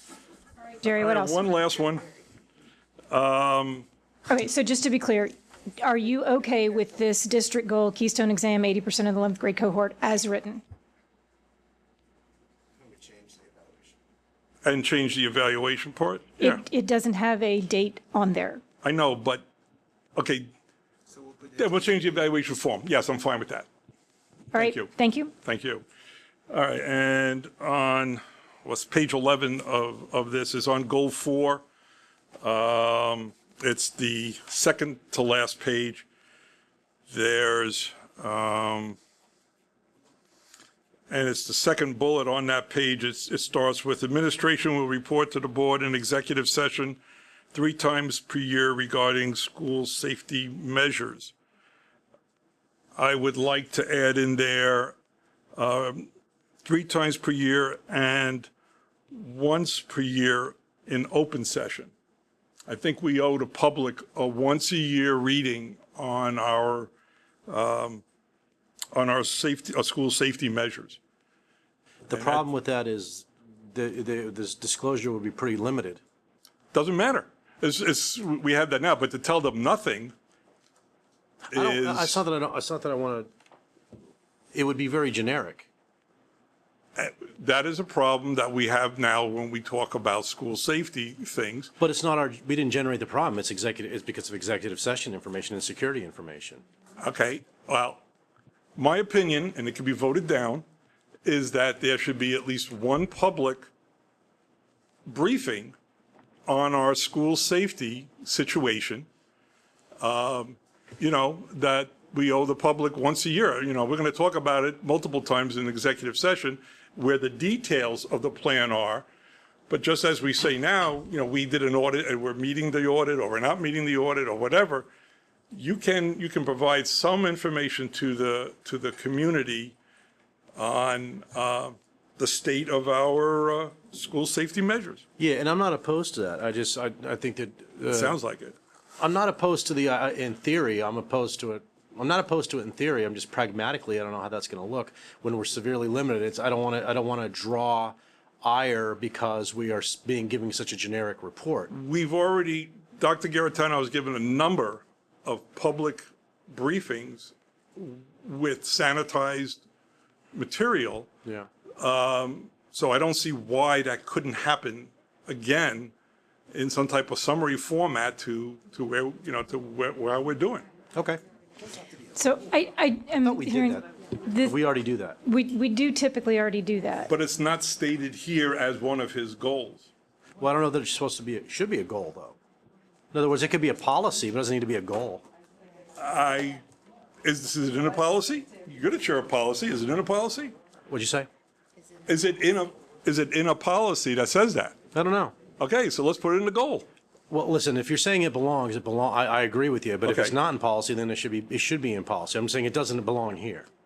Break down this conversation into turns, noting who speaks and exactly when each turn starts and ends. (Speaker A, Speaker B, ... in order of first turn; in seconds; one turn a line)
Speaker A: 0.8-1.4
Speaker B: 0.9-2.1
Speaker B: 3.1-3.9
Speaker A: 4.3-10.6
Speaker B: 14.6-16.6
Speaker A: 16.4-18.6
Speaker B: 18.8-19.4
Speaker B: 20.2-20.5
Speaker B: 21.5-23.7
Speaker A: 24.5-25.3
Speaker B: 24.6-24.9
Speaker B: 25.4-25.8
Speaker B: 26.5-31.6
Speaker B: 32.4-36.1
Speaker B: 37.1-39.0
Speaker B: 41.1-47.0
Speaker B: 47.5-51.3
Speaker B: 53.0-55.0
Speaker B: 55.6-56.1
Speaker B: 56.6-58.5
Speaker B: 59.1-61.9
Speaker B: 62.7-66.9
Speaker B: 67.5-68.0
Speaker B: 68.9-71.0
Speaker C: 72.1-76.0
Speaker B: 72.1-72.4
Speaker B: 76.7-80.1
Speaker C: 81.5-83.3
Speaker B: 81.5-82.2
Speaker C: 84.5-85.7
Speaker B: 87.0-91.7
Speaker C: 91.8-96.6
Speaker B: 97.0-98.0
Speaker B: 98.8-100.7
Speaker B: 101.2-103.7
Speaker B: 105.1-105.8
Speaker B: 106.5-109.1
Speaker B: 110.0-119.1
Speaker B: 119.7-124.9
Speaker B: 125.5-129.8
Speaker B: 130.6-135.0
Speaker C: 135.2-138.2
Speaker B: 137.9-138.6
Speaker C: 139.0-151.7
Speaker B: 151.7-159.6
Speaker B: 160.3-161.1
Speaker B: 161.8-165.9
Speaker B: 166.5-170.7
Speaker C: 170.9-171.2
Speaker A: 172.2-174.6
Speaker C: 173.2-173.9
Speaker C: 174.4-175.2
Speaker A: 175.2-177.1
Speaker B: 177.1-179.9
Speaker C: 180.4-182.4
Speaker C: 183.1-185.2
Speaker B: 186.0-186.6
Speaker B: 187.2-190.5
Speaker C: 190.9-191.3
Speaker B: 192.1-194.8
Speaker C: 194.9-195.4
Speaker B: 195.6-196.9
Speaker C: 197.3-203.7
Speaker B: 200.0-200.3